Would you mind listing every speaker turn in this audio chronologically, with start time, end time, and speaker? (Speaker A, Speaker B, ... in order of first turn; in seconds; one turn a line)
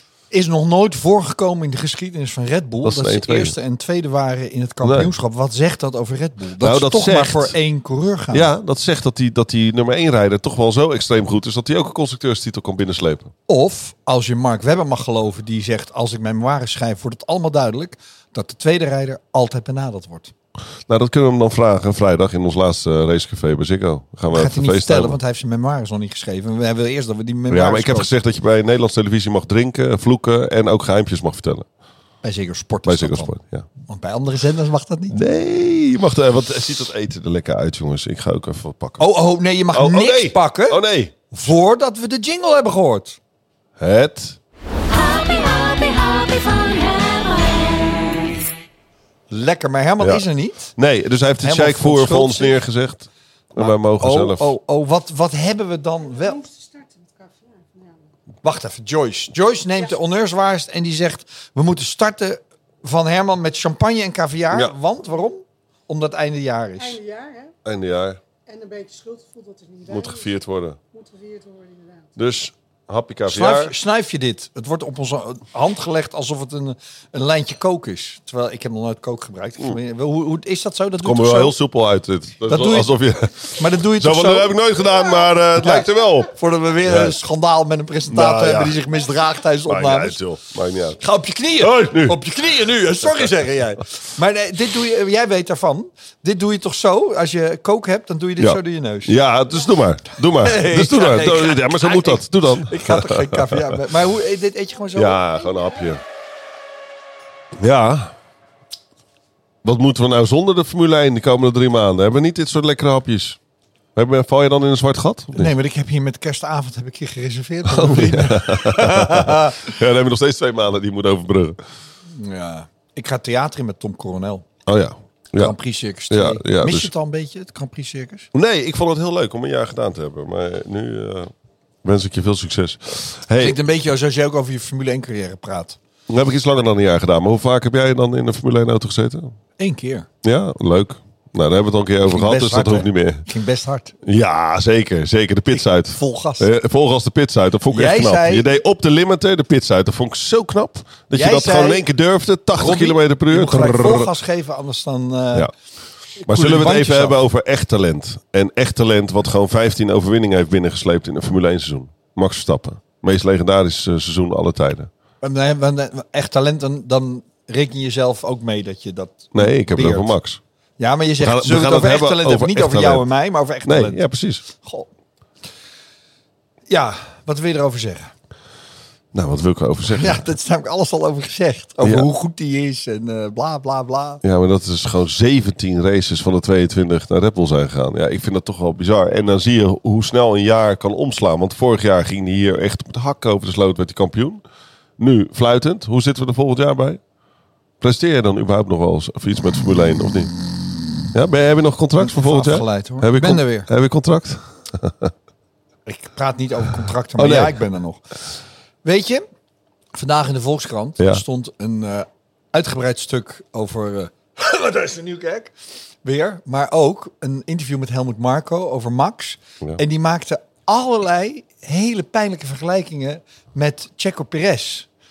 Speaker A: 0.3-8.5
Speaker B: 2.8-3.5
Speaker B: 4.8-5.1
Speaker B: 6.6-7.5
Speaker B: 8.3-13.3
Speaker A: 13.5-20.3
Speaker B: 20.9-25.2
Speaker A: 24.3-28.1
Speaker B: 27.5-31.7
Speaker A: 32.2-35.2
Speaker B: 32.9-33.7
Speaker B: 35.1-39.0
Speaker A: 39.0-43.2
Speaker B: 39.7-41.1
Speaker B: 43.8-44.4
Speaker C: 44.9-48.3
Speaker A: 49.3-50.8
Speaker B: 50.8-54.5
Speaker A: 51.4-52.6
Speaker A: 53.6-56.4
Speaker D: 56.1-58.1
Speaker A: 58.4-67.0
Speaker D: 66.8-67.5
Speaker B: 67.7-68.2
Speaker D: 68.5-70.3
Speaker B: 69.9-70.8
Speaker D: 70.9-72.1
Speaker B: 72.2-73.7
Speaker A: 73.3-81.6
Speaker B: 81.0-86.3
Speaker A: 82.5-83.0
Speaker A: 83.5-84.5
Speaker A: 85.6-90.2
Speaker B: 86.8-87.2
Speaker B: 88.1-88.8
Speaker B: 89.7-91.0
Speaker A: 91.0-99.2
Speaker B: 91.6-92.2
Speaker B: 98.4-103.8
Speaker A: 100.4-105.2
Speaker B: 105.0-106.0
Speaker B: 107.6-108.1
Speaker B: 109.6-113.4
Speaker B: 114.0-115.5
Speaker A: 115.3-119.7
Speaker B: 117.7-121.6
Speaker A: 122.1-124.5
Speaker B: 124.7-125.5
Speaker A: 125.4-128.3
Speaker B: 126.1-126.9
Speaker B: 128.3-131.3
Speaker B: 131.8-133.6
Speaker A: 133.3-135.8
Speaker B: 136.1-139.3
Speaker A: 139.6-140.1
Speaker B: 140.2-143.3
Speaker A: 142.1-143.9
Speaker B: 144.0-154.1
Speaker A: 145.5-146.5
Speaker A: 147.7-148.4
Speaker A: 151.1-151.8
Speaker A: 152.5-155.5
Speaker A: 156.2-157.2
Speaker B: 156.3-164.9
Speaker A: 165.2-170.1
Speaker B: 169.3-170.4
Speaker A: 170.8-174.9
Speaker B: 171.2-173.1
Speaker B: 173.7-174.4
Speaker A: 176.7-178.1
Speaker B: 179.1-180.2
Speaker A: 179.9-184.2
Speaker B: 181.8-182.1
Speaker B: 184.2-194.4
Speaker B: 195.0-197.0
Speaker B: 197.8-200.3
Speaker B: 201.1-205.1
Speaker A: 202.0-203.7
Speaker A: 205.8-208.0
Speaker B: 207.2-207.6
Speaker A: 208.8-209.3
Speaker A: 209.9-224.9